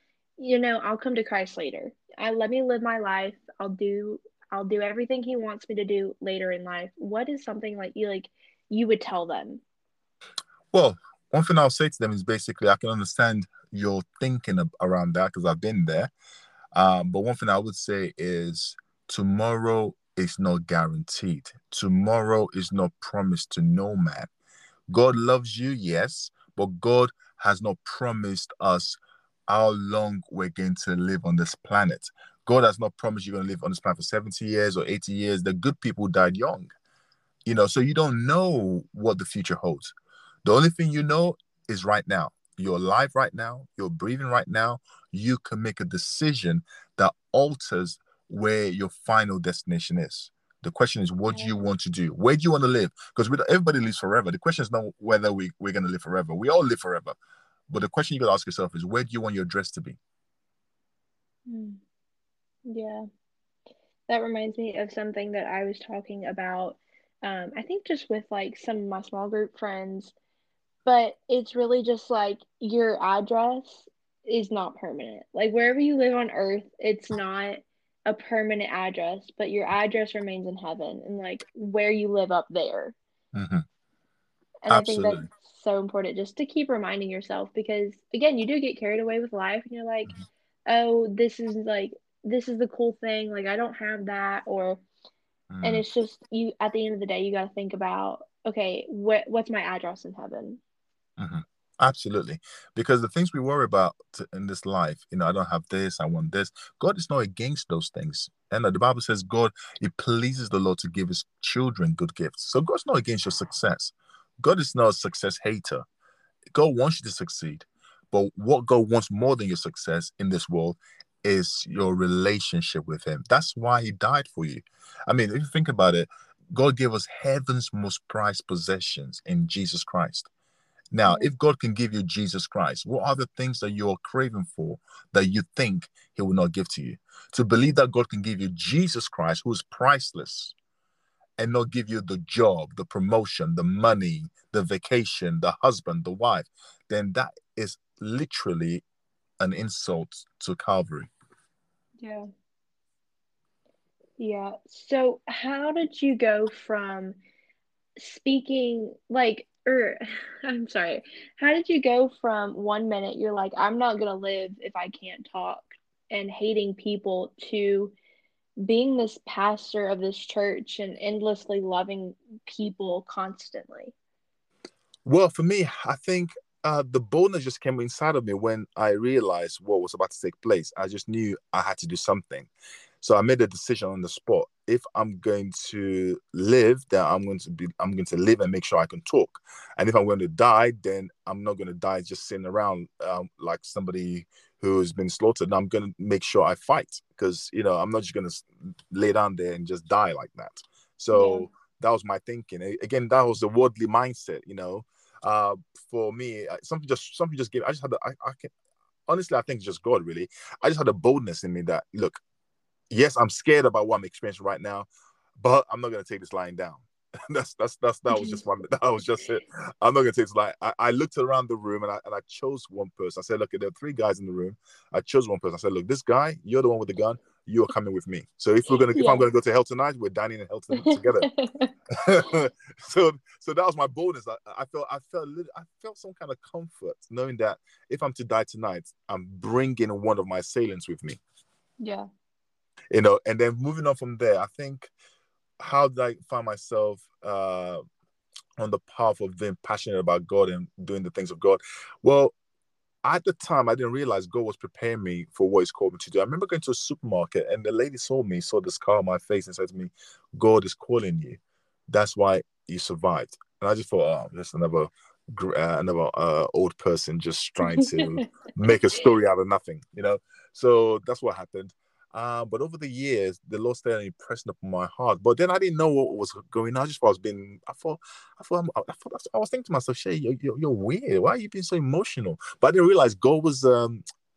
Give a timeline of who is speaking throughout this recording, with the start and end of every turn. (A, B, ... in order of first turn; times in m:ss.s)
0:00.4-0:09.6 A
0:10.7-0:16.1 B
0:16.7-0:24.3 B
0:24.9-0:36.7 B
0:37.4-0:39.9 B
0:40.4-0:57.1 B
0:51.3-0:51.5 A
0:57.7-1:00.0 B
1:01.5-1:01.8 A
1:02.7-1:03.0 A
1:04.1-1:10.1 A
1:10.8-1:22.9 A
1:23.3-1:23.6 B
1:24.6-1:34.8 A
1:24.7-1:25.3 B
1:35.5-1:35.8 B
1:35.6-1:40.6 A
1:41.2-1:55.8 B
1:56.5-2:10.3 B
2:10.9-2:20.5 B
2:11.0-2:11.3 A
2:21.4-2:28.8 B
2:29.4-2:31.1 B
2:32.0-2:32.3 A
2:34.2-2:37.2 A
2:38.0-2:47.9 A
2:48.6-2:53.9 A
2:55.0-3:02.5 B
3:03.0-3:28.5 B
3:21.1-3:21.4 A
3:29.1-3:32.2 B
3:32.9-3:34.9 B
3:35.4-3:51.3 B
3:38.1-3:38.4 A
3:48.9-3:49.3 A
3:50.7-3:51.7 A
3:51.9-4:01.2 B
4:01.8-4:02.1 A
4:02.9-4:04.9 B
4:05.6-4:07.8 B
4:08.6-4:12.3 B
4:13.0-4:44.0 B
4:27.6-4:28.2 A